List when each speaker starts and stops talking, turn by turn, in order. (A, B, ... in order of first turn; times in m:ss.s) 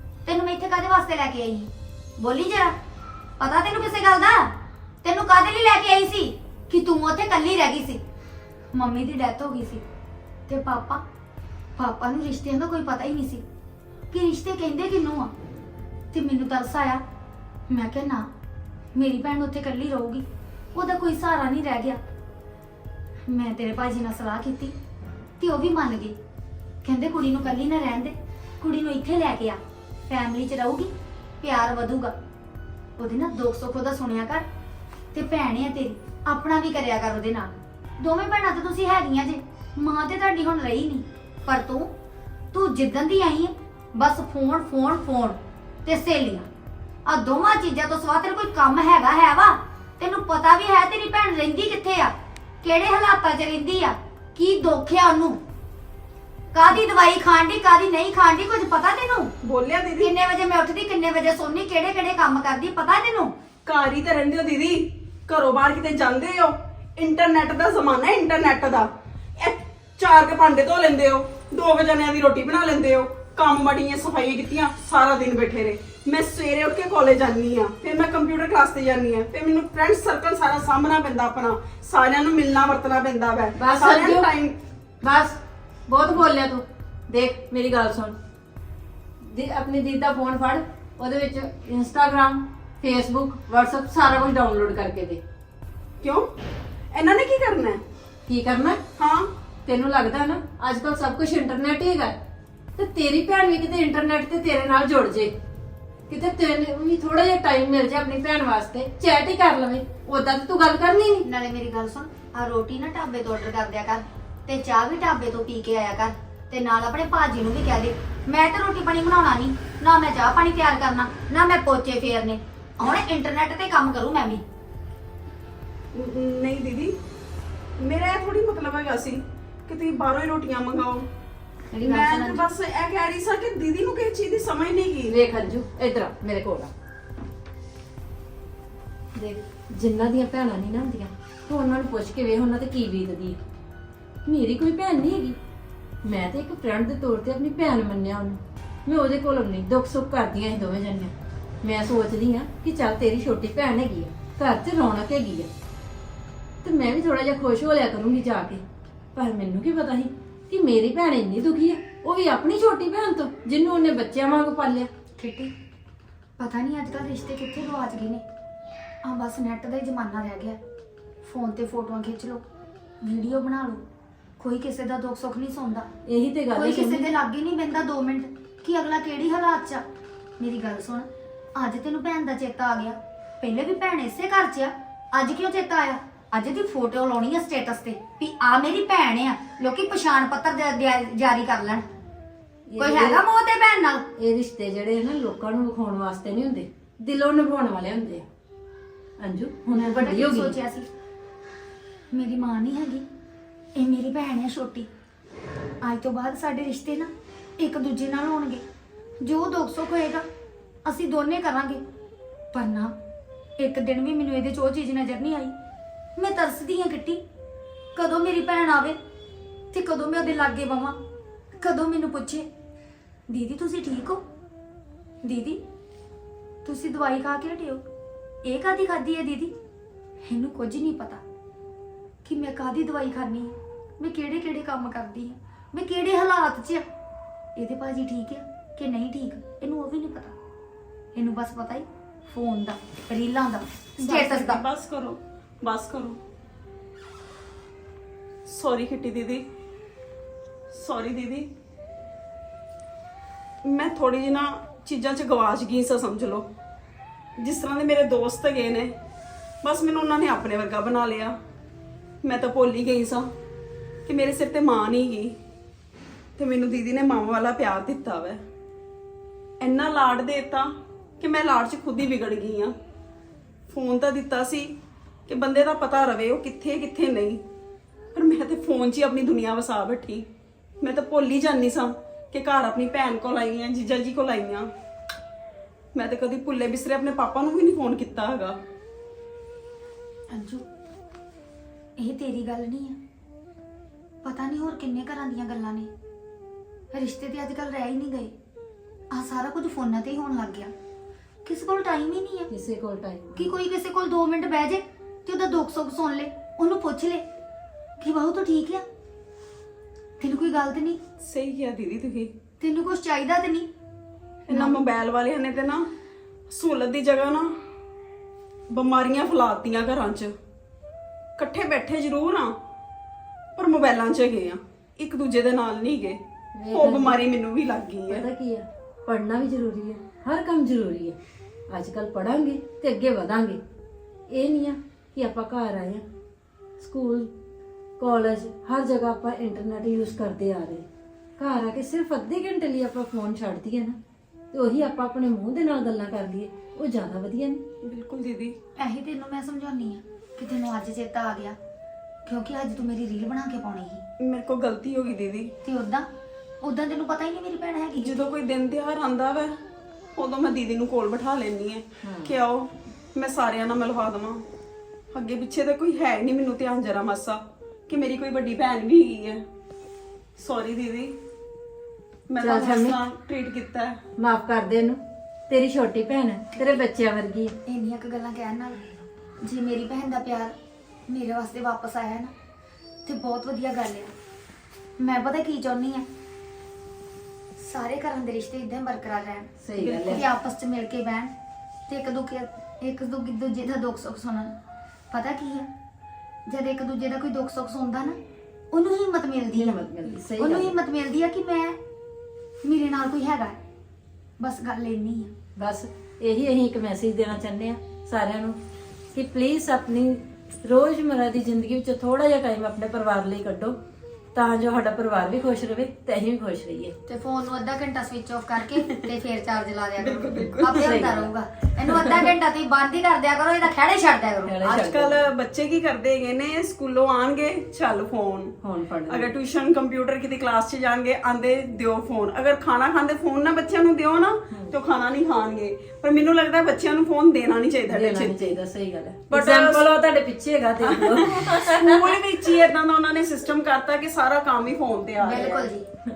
0:00.2-0:02.7 A
0:03.4-0:04.5 A
0:05.0-0:08.0 A
0:08.7-0:09.8 A
0:10.5-0:11.0 A
0:11.8-0:13.4 A
0:14.1-0:15.3 A
0:16.1-0:17.0 A
0:17.7-0:18.3 A
0:18.9-0:22.0 A
0:23.3-0:24.7 A
0:25.4-0:26.2 A
0:26.8-0:32.1 A
0:33.0-0:34.4 A
0:35.1-0:41.9 A
0:42.5-0:46.4 A
0:47.0-0:55.4 A
0:56.5-0:59.3 A
0:59.4-1:00.1 B
1:00.0-1:03.3 A
1:03.6-1:24.6 B
1:23.6-1:24.3 C
1:25.0-1:28.2 C
1:29.2-1:35.2 C
1:36.0-1:36.3 B
1:36.9-1:37.8 B
1:38.3-1:38.8 C
1:39.0-1:39.3 B
1:39.6-1:42.1 C
1:42.8-1:45.3 C
1:46.1-1:51.2 C
1:51.2-2:04.4 A
2:05.9-2:06.9 B
2:07.8-2:11.1 B
2:11.7-2:12.4 A
2:11.8-2:15.2 B
2:15.1-2:16.7 C
2:19.1-2:23.4 C
2:24.2-2:25.4 C
2:26.0-2:35.5 C
2:36.6-2:38.6 C
2:39.1-2:44.9 C
2:45.2-2:45.5 A
2:46.4-2:48.2 A
2:49.0-2:50.6 A
2:51.2-2:52.4 A
2:53.0-2:53.8 A
2:54.4-2:55.9 A
2:56.0-2:57.1 C
2:56.5-2:59.8 A
3:00.4-3:11.8 A
3:12.7-3:13.2 C
3:12.8-3:14.0 A
3:14.2-3:18.2 C
3:19.2-3:20.5 C
3:19.7-3:20.9 A
3:22.1-3:23.0 A
3:23.8-3:24.9 A
3:25.8-3:28.6 A
3:29.2-3:30.2 A
3:30.8-3:31.8 A
3:32.5-3:32.9 A
3:33.6-3:35.5 A
3:36.2-3:37.2 A
3:37.9-3:39.0 A
3:39.7-3:41.0 A
3:41.6-3:42.4 A
3:43.3-3:44.2 A
3:45.2-3:45.6 A
3:46.6-3:47.8 A
3:48.4-3:49.5 A
3:50.2-3:51.2 A
3:52.2-3:56.8 A
3:57.6-4:00.3 A
4:01.1-4:04.6 A
4:04.0-4:06.2 B
4:08.4-4:09.4 B
4:10.7-4:11.5 B
4:13.6-4:16.4 B
4:17.4-4:18.9 B
4:19.6-4:21.3 B
4:22.2-4:23.2 B
4:24.1-4:25.3 B
4:26.4-4:28.4 B
4:29.6-4:32.7 B
4:33.7-4:34.7 B
4:35.3-4:37.4 B
4:38.1-4:40.3 B
4:40.8-4:44.7 B
4:45.9-4:48.5 B
4:50.3-4:50.6 A
4:52.0-4:53.0 A
4:54.2-4:55.9 A
4:56.9-4:58.3 A
4:59.1-5:00.7 A
5:01.4-5:02.5 A
5:02.5-5:03.5 C
5:03.3-5:07.2 A
5:08.0-5:08.8 A
5:10.2-5:11.0 A
5:11.2-5:12.3 B
5:12.6-5:13.7 A
5:14.5-5:15.9 B
5:14.5-5:14.8 A
5:16.5-5:17.5 B
5:18.7-5:20.3 B
5:21.4-5:22.5 B
5:23.6-5:26.2 B
5:26.6-5:27.2 C
5:26.7-5:28.2 B
5:28.1-5:31.2 C
5:31.7-5:33.6 C
5:34.3-5:36.0 C
5:36.8-5:37.3 C
5:38.0-5:40.8 C
5:41.4-5:44.0 C
5:44.5-5:47.6 C
5:47.8-5:48.6 B
5:48.8-5:51.6 A
5:52.2-5:54.0 A
5:54.2-5:55.5 B
5:55.6-5:56.1 A
5:56.6-5:58.2 A
5:58.0-5:59.5 B
6:00.2-6:04.4 B
6:02.0-6:02.3 C
6:05.1-6:09.4 B
6:10.4-6:11.2 B
6:12.3-6:14.0 B
6:12.4-6:13.0 C
6:14.2-6:17.5 C
6:17.6-6:20.5 A
6:21.1-6:22.3 A
6:23.0-6:24.1 A
6:25.0-6:26.0 A
6:27.6-6:29.5 A
6:29.6-6:30.2 C
6:29.8-6:30.2 B
6:30.0-6:31.3 A
6:31.9-6:34.5 A
6:35.1-6:35.7 A
6:36.5-6:38.2 A
6:38.7-6:39.8 A
6:39.5-6:40.7 C
6:40.4-6:41.8 A
6:42.6-6:43.6 A
6:44.4-6:45.3 A
6:45.6-6:48.6 C
6:49.1-6:53.8 C
6:54.3-6:56.9 C
6:57.1-7:04.6 A
7:00.0-7:01.0 B
7:00.6-7:01.3 C
7:01.8-7:02.3 C
7:04.4-7:05.3 C
7:04.6-7:08.6 B
7:08.6-7:09.3 C
7:09.1-7:18.6 B
7:14.5-7:14.8 C
7:17.9-7:22.1 C
7:19.3-7:19.9 B
7:20.8-7:25.7 B
7:25.2-7:25.8 A